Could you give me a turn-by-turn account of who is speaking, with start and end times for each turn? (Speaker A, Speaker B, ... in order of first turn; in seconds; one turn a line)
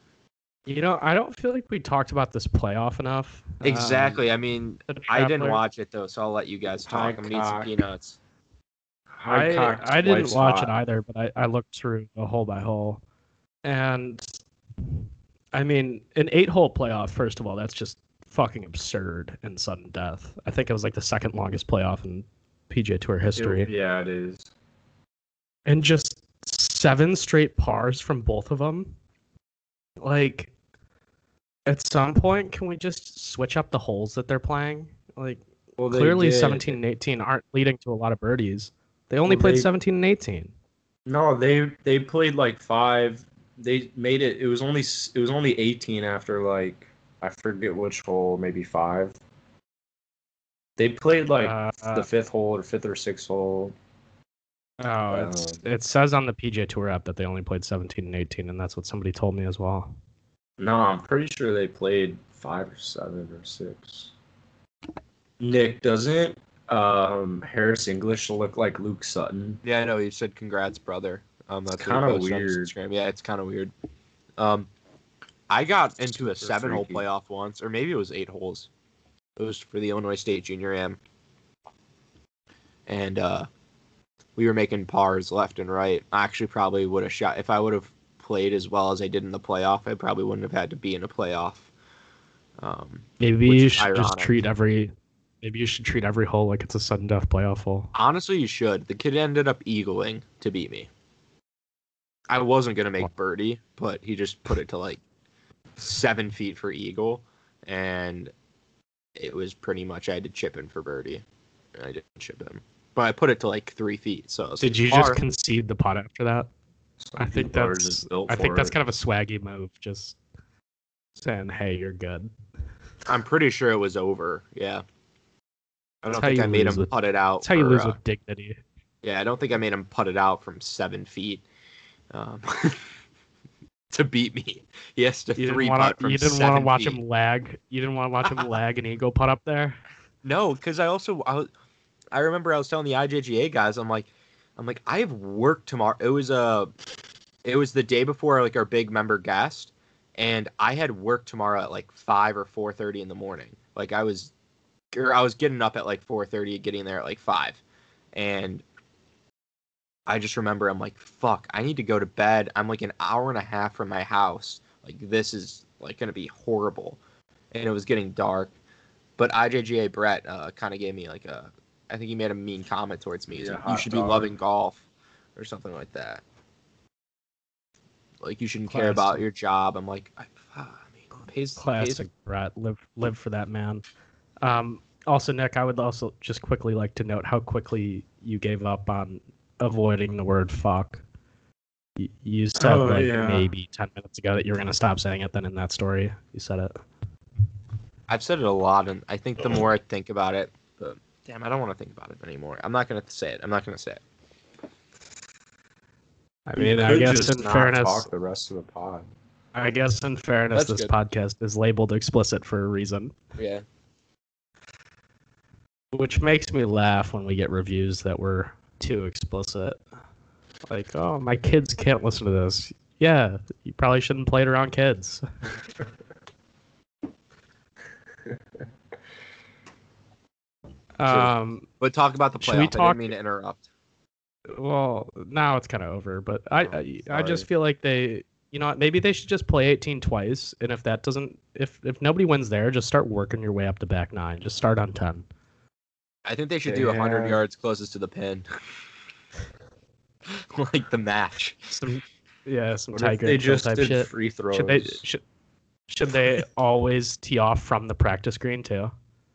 Speaker A: 0.7-4.2
Speaker B: 3.6-8.2
Speaker A: 4.9-5.6
Speaker C: 6.8-7.7
Speaker C: 9.1-10.7
Speaker A: 9.3-13.0
Speaker A: 13.6-14.4
Speaker A: 15.5-23.7
Speaker C: 23.3-24.5
Speaker A: 25.6-29.0
Speaker A: 30.0-30.5
Speaker A: 31.6-40.5
Speaker C: 35.8-36.8
Speaker C: 39.2-39.7
Speaker C: 41.0-49.1
Speaker C: 50.8-53.7
Speaker A: 51.4-52.1
Speaker A: 54.8-59.9
Speaker C: 55.1-55.6
Speaker C: 60.6-64.1
Speaker C: 65.4-69.6
Speaker B: 69.6-73.7
Speaker C: 71.7-72.7
Speaker B: 74.4-74.7
Speaker B: 75.5-78.7
Speaker C: 76.2-77.0
Speaker B: 79.4-81.0
Speaker B: 82.9-83.5
Speaker B: 84.3-91.7
Speaker B: 92.6-94.3
Speaker A: 93.2-97.9
Speaker B: 97.9-100.9
Speaker B: 102.3-105.0
Speaker B: 105.8-108.3
Speaker B: 109.2-111.2
Speaker B: 111.7-115.2
Speaker A: 114.6-116.5
Speaker C: 117.0-118.7
Speaker A: 117.2-120.2
Speaker A: 121.2-122.3
Speaker B: 123.0-124.8
Speaker B: 126.0-128.0
Speaker A: 126.1-128.6
Speaker B: 129.0-131.4
Speaker B: 132.1-132.9
Speaker B: 133.9-137.0
Speaker A: 135.3-139.8
Speaker B: 138.2-138.5
Speaker B: 140.2-141.5
Speaker B: 142.1-146.7
Speaker B: 147.4-154.3
Speaker B: 154.9-157.6
Speaker B: 158.1-158.6
Speaker B: 160.1-167.0
Speaker B: 167.5-168.5
Speaker B: 169.2-174.8
Speaker C: 173.3-174.3
Speaker B: 175.3-176.2
Speaker B: 178.2-182.0
Speaker A: 178.7-179.2
Speaker A: 181.6-183.8
Speaker A: 184.4-191.0
Speaker A: 192.0-196.7
Speaker C: 192.6-193.5
Speaker B: 198.1-204.0
Speaker A: 206.5-208.1
Speaker C: 206.6-209.1
Speaker A: 209.5-213.1
Speaker B: 210.5-210.9
Speaker B: 213.4-213.6
Speaker A: 215.9-219.8
Speaker A: 220.7-225.2
Speaker A: 231.0-231.7
Speaker B: 231.1-233.6
Speaker A: 232.4-233.1
Speaker A: 234.5-245.2
Speaker B: 236.6-237.4
Speaker B: 246.2-248.4
Speaker C: 246.7-247.4
Speaker B: 250.3-251.7
Speaker A: 251.7-255.2
Speaker C: 252.9-255.0
Speaker A: 255.9-258.9